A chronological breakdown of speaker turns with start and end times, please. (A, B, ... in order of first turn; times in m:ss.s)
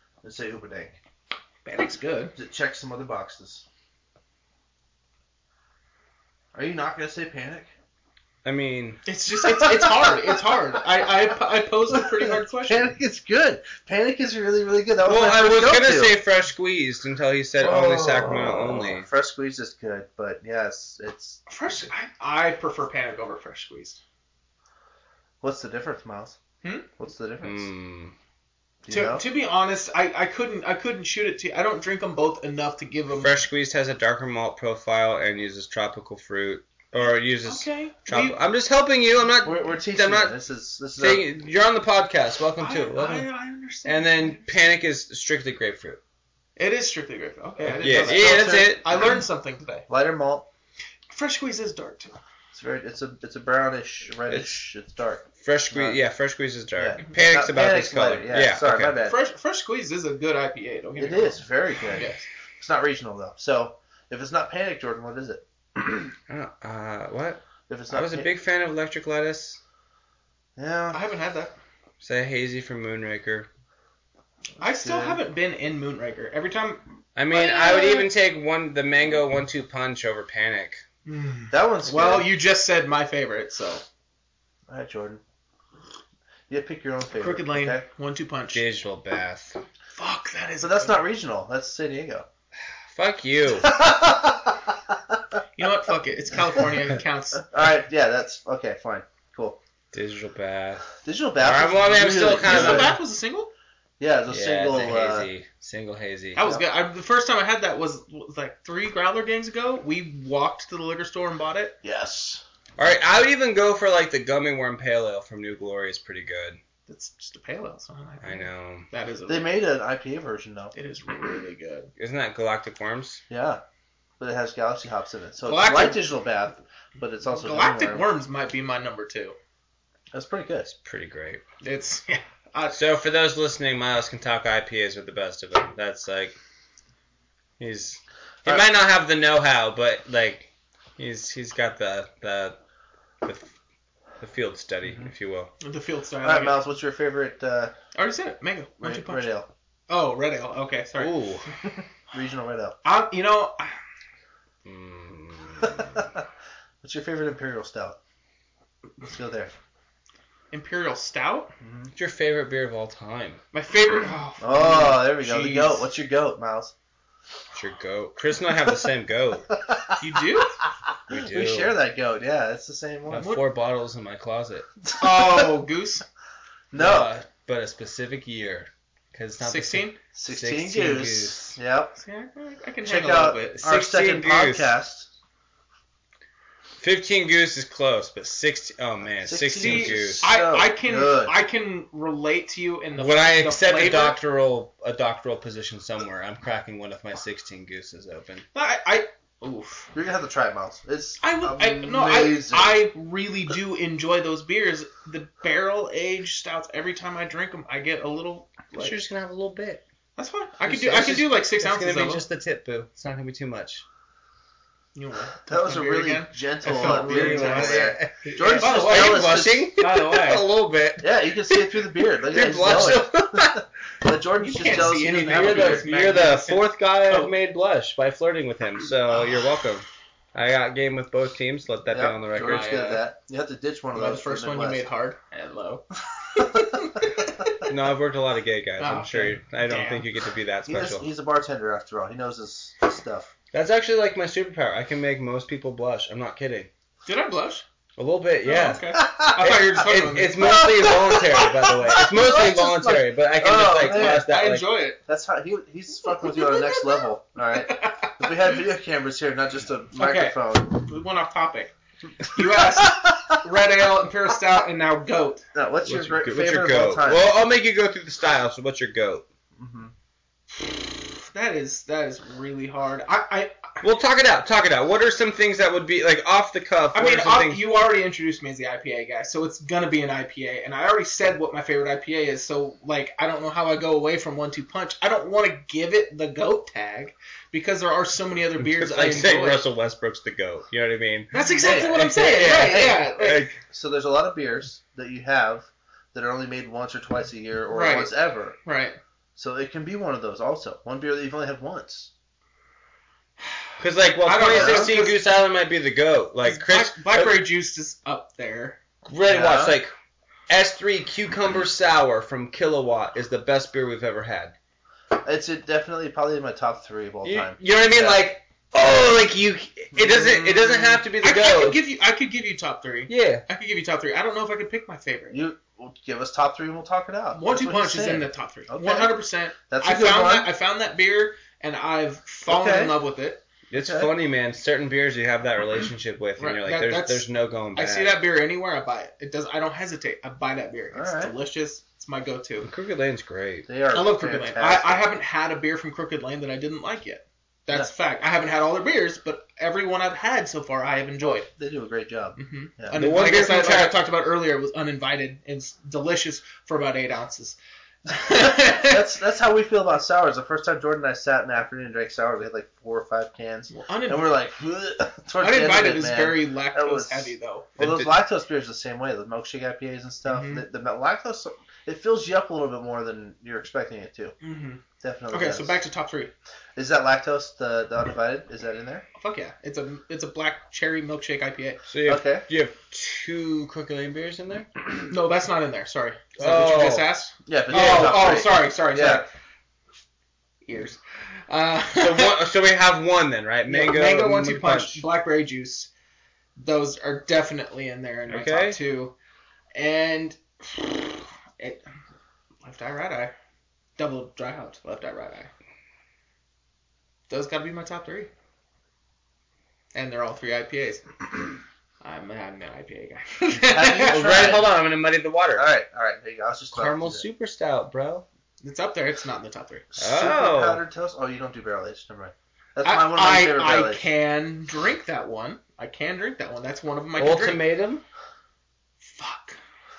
0:00.2-0:01.0 A
0:01.6-0:02.3 B
0:02.4-0:03.6 A
0:06.5-0:07.7 A
0:08.4-0:09.0 C
0:09.0-0:12.9 B
0:09.4-0:10.3 A
0:11.9-0:16.2 A
0:15.0-0:19.1 C
0:17.6-0:21.4 A
0:21.5-0:24.0 B
0:25.4-0:26.4 A
0:26.6-0:26.9 B
0:27.0-0:27.7 A
0:27.4-0:28.1 C
0:28.8-0:29.2 A
0:28.9-0:33.4 B
0:33.2-0:40.4 C
0:37.4-0:38.4 B
0:39.4-0:41.2 A
0:40.9-0:43.3 C
0:42.6-0:44.5 B
0:43.8-0:46.0 C
0:46.6-0:49.9 B
0:47.7-0:48.9 C
0:47.8-0:48.8 A
0:49.9-0:50.5 A
0:51.1-0:52.2 B
0:52.5-0:56.0 A
0:54.3-0:54.6 C
0:55.4-0:59.0 C
0:56.8-0:59.2 A
0:59.0-1:01.4 B
1:01.0-1:05.4 A
1:01.9-1:02.2 B
1:06.3-1:09.6 C
1:07.7-1:08.3 A
1:10.6-1:11.0 A
1:10.9-1:11.5 B
1:12.0-1:13.5 C
1:14.6-1:18.1 B
1:14.6-1:15.2 A
1:17.2-1:20.8 C
1:21.0-1:23.8 B
1:21.5-1:22.3 A
1:24.7-1:25.2 A
1:26.5-1:27.8 A
1:27.2-1:28.6 B
1:28.5-1:29.5 C
1:30.0-1:31.0 B
1:30.6-1:32.3 A
1:32.9-1:33.7 C
1:33.6-1:35.2 A
1:35.6-1:37.5 B
1:37.4-1:39.6 A
1:39.9-1:43.0 C
1:41.0-1:42.9 A
1:42.4-1:43.5 B
1:44.0-1:45.3 A
1:44.3-1:46.4 C
1:46.4-1:51.8 B
1:51.8-1:52.4 A
1:52.8-1:56.6 C
1:56.9-1:59.6 B
1:58.2-1:58.9 C
1:59.3-2:00.7 A
2:00.7-2:01.9 B
2:02.0-2:03.2 C
2:03.3-2:03.6 A
2:04.2-2:08.0 A
2:05.4-2:06.0 B
2:07.3-2:09.4 B
2:10.1-2:10.7 A
2:10.7-2:11.4 C
2:11.6-2:12.8 B
2:12.7-2:16.4 C
2:17.6-2:22.6 C
2:23.2-2:23.5 C
2:24.2-2:25.5 C
2:25.6-2:26.6 B
2:26.2-2:27.7 A
2:27.9-2:29.3 B
2:28.8-2:29.5 A
2:29.9-2:31.1 B
2:31.0-2:31.4 C
2:32.1-2:32.8 A
2:32.8-2:33.8 B
2:34.6-2:36.0 C
2:35.6-2:36.2 A
2:36.8-2:38.0 A
2:39.0-2:39.5 A
2:40.5-2:41.5 B
2:41.6-2:41.9 A
2:41.9-2:43.4 C
2:43.5-2:45.9 B
2:44.4-2:46.7 A
2:47.5-2:49.5 C
2:50.0-2:50.5 B
2:51.1-2:51.7 C
2:51.1-2:53.3 A
2:53.1-2:54.6 C
2:53.2-2:53.4 B
2:54.8-2:55.5 A
2:55.0-2:56.0 B
2:56.7-2:57.1 A
2:56.7-3:01.6 C
2:59.4-3:00.0 B
3:00.2-3:02.0 A
3:02.0-3:03.6 B
3:02.8-3:05.1 A
3:03.6-3:04.7 C
3:06.8-3:10.3 C
3:09.2-3:11.4 A
3:09.6-3:14.2 B
3:13.0-3:18.4 C
3:18.5-3:19.9 B
3:19.9-3:22.9 A
3:21.2-3:29.0 B
3:28.7-3:29.8 C
3:30.2-3:32.2 B
3:30.7-3:33.8 C
3:34.9-3:40.5 B
3:35.5-3:39.7 A
3:36.7-3:41.7 C
3:41.0-3:45.9 A
3:42.3-3:43.6 C
3:44.4-3:47.3 B
3:44.6-3:53.0 C
3:51.9-3:54.8 A
3:52.5-3:52.9 B
3:53.9-3:57.6 B
3:56.3-3:57.0 A
3:57.6-4:01.0 C
3:58.8-4:00.1 B
4:00.7-4:03.3 A
4:03.5-4:06.7 C
4:07.0-4:07.6 B
4:08.0-4:14.8 C
4:08.4-4:10.5 B
4:09.0-4:09.5 A
4:10.4-4:14.4 A
4:13.8-4:15.0 B
4:15.1-4:20.8 A
4:16.1-4:17.0 B
4:17.6-4:18.4 B
4:19.9-4:25.4 B
4:22.5-4:23.4 A
4:25.5-4:27.3 A
4:25.8-4:29.2 C
4:29.6-4:29.9 A
4:30.6-4:33.8 B
4:33.8-4:37.6 C
4:36.9-4:49.6 B
4:48.6-4:51.3 C
4:51.3-4:53.5 B
4:51.6-4:58.6 A
4:51.9-4:53.6 C
4:57.7-4:58.1 B
4:58.6-4:59.0 B
4:59.4-5:02.1 A
5:03.8-5:07.4 C
5:04.2-5:05.2 B
5:04.5-5:04.9 A
5:06.4-5:08.8 B
5:09.1-5:09.9 C
5:09.3-5:09.8 A
5:10.5-5:14.5 C
5:15.1-5:18.2 A
5:17.2-5:21.8 C
5:20.0-5:25.4 B
5:23.1-5:23.4 C
5:25.3-5:30.5 A
5:27.3-5:33.4 B
5:32.4-5:33.0 A
5:33.7-5:38.2 C
5:33.8-5:34.1 A
5:36.4-5:42.7 B
5:40.9-5:41.3 A
5:42.6-5:43.7 C
5:43.6-5:45.1 A
5:43.9-5:51.5 B
5:51.2-5:53.0 A
5:52.4-5:59.0 B
5:52.9-5:54.0 C
5:58.3-6:14.3 A
6:03.7-6:04.3 B
6:05.4-6:08.1 B
6:10.2-6:10.6 B
6:14.4-6:16.3 B
6:15.0-6:15.8 A
6:16.8-6:19.0 A
6:19.2-6:21.8 B
6:21.9-6:24.7 C
6:22.0-6:22.4 A
6:25.1-6:29.3 B
6:26.4-6:27.1 C
6:27.4-6:29.2 A
6:27.7-6:28.3 C
6:30.6-6:32.4 B
6:31.9-6:35.0 C
6:33.7-6:35.9 B
6:36.6-6:39.2 B
6:38.3-6:38.8 C
6:39.7-6:41.8 B
6:42.6-6:43.3 B
6:44.0-6:45.5 B
6:47.3-6:48.3 B
6:49.9-6:51.1 B
6:52.0-6:54.2 B
6:53.5-6:54.7 A
6:54.0-6:55.7 C
6:55.5-6:57.2 A
6:56.7-6:58.2 C
6:58.6-6:59.8 B
7:00.0-7:04.0 A
7:00.0-7:00.8 C
7:02.8-7:07.6 B
7:07.2-7:08.0 C
7:09.0-7:09.6 B